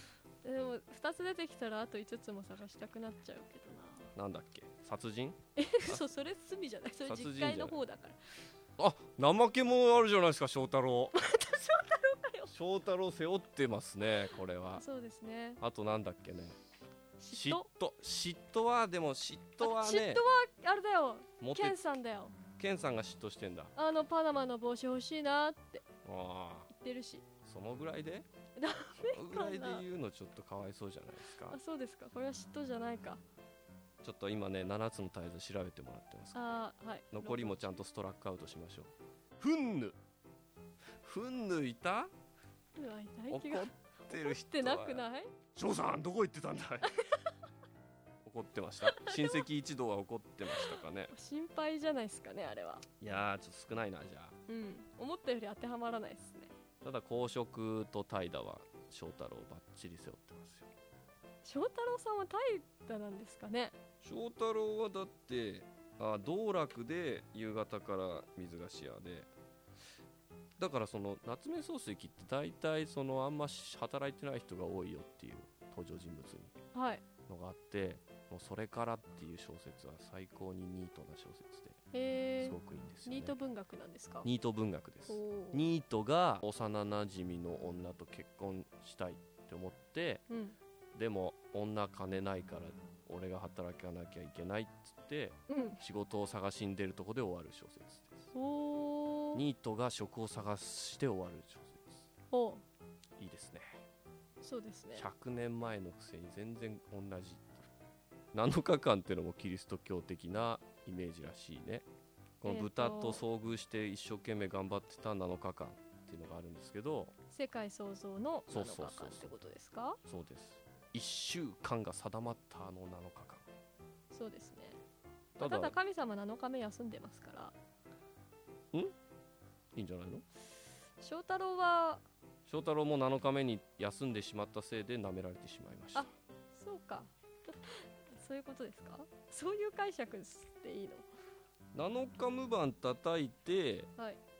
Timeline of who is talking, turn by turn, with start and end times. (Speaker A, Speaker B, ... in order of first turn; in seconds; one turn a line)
Speaker A: 0.4-4.1
Speaker B: 4.2-6.0
Speaker A: 5.6-8.2
Speaker B: 7.0-7.8
Speaker B: 8.8-11.2
Speaker A: 11.2-12.5
Speaker B: 12.5-14.8
Speaker A: 14.8-15.6
Speaker B: 15.6-16.6
Speaker A: 17.2-17.7
Speaker B: 17.3-20.2
Speaker A: 19.6-22.4
Speaker B: 21.4-21.8
Speaker B: 22.5-23.7
Speaker A: 23.8-25.8
Speaker B: 26.0-26.7
Speaker A: 26.7-27.2
Speaker B: 27.4-28.3
Speaker A: 28.6-29.9
Speaker B: 29.0-31.6
Speaker A: 31.5-33.2
Speaker B: 34.0-36.5
Speaker A: 36.3-37.8
Speaker B: 37.1-40.0
Speaker B: 41.0-42.1
Speaker A: 42.8-45.3
Speaker B: 43.3-46.9
Speaker A: 46.9-47.3
Speaker B: 48.2-51.1
Speaker A: 48.9-49.4
Speaker A: 50.6-52.8
Speaker B: 53.0-54.4
Speaker A: 54.5-56.5
Speaker B: 56.8-60.7
Speaker A: 61.4-63.8
Speaker B: 64.0-69.3
Speaker B: 70.6-76.5
Speaker A: 76.7-77.0
Speaker B: 77.3-81.8
Speaker A: 81.9-84.3
Speaker B: 82.4-83.3
Speaker B: 84.2-90.2
Speaker A: 85.1-85.7
Speaker A: 90.3-90.5
Speaker B: 90.9-98.3
Speaker A: 95.5-95.8
Speaker A: 98.3-99.4
Speaker B: 99.3-102.1
Speaker A: 102.3-102.6
Speaker B: 103.2-103.8
Speaker A: 104.4-105.1
Speaker B: 104.9-107.6
Speaker B: 108.3-111.8
Speaker B: 112.4-117.1
Speaker A: 112.4-113.2
Speaker A: 117.3-120.0
Speaker B: 118.5-119.3
Speaker B: 120.0-123.4
Speaker A: 124.1-124.8
Speaker B: 125.4-125.8
Speaker A: 125.4-127.5
Speaker B: 129.7-130.2
Speaker A: 131.0-132.0
Speaker B: 132.5-136.1
Speaker A: 135.9-141.1
Speaker B: 141.7-143.9